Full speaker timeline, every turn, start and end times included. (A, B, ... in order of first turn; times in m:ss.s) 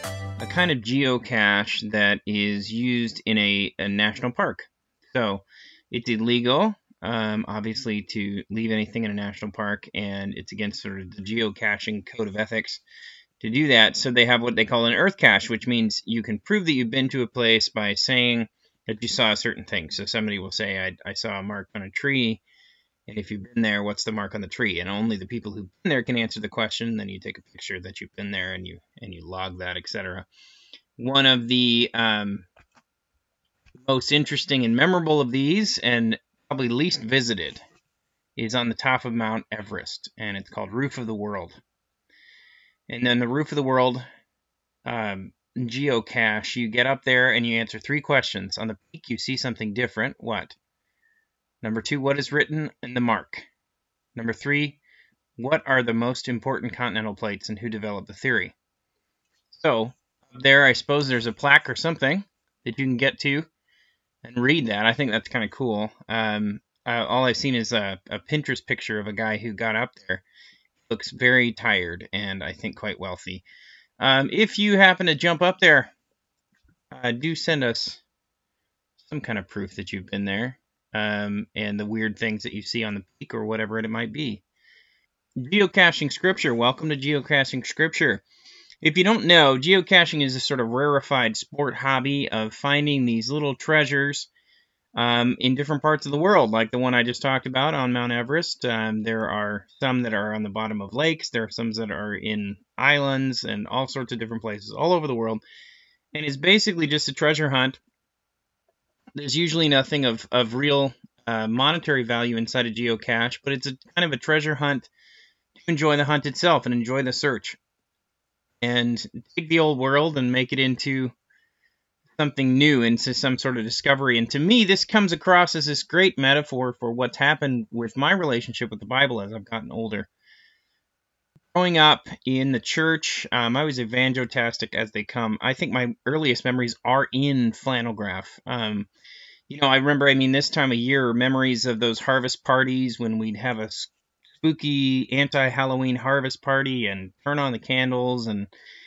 0:00.4-0:12.8 A
0:13.4-0:22.4 A
0:23.1-0:30.3 A
0:31.0-0:32.5 A
0:33.8-0:37.6 A
0:38.4-0:41.6 A
0:42.9-0:44.0 A
0:44.8-0:50.6 A
0:51.6-0:53.5 A
0:54.2-0:54.8 A
0:55.4-0:58.6 A
0:59.5-1:03.5 A
1:04.2-1:10.2 A
1:10.9-1:13.4 A
1:14.0-1:15.9 A
1:16.9-1:18.0 A
1:19.0-1:24.4 A
1:25.4-1:28.2 A
1:28.8-1:34.3 A
1:34.9-1:45.4 A
1:46.1-1:47.8 A
1:49.2-1:54.9 A
1:55.6-1:57.6 A
1:58.6-2:01.1 A
2:02.2-2:10.1 A
2:11.5-2:18.9 A
2:19.5-2:28.5 A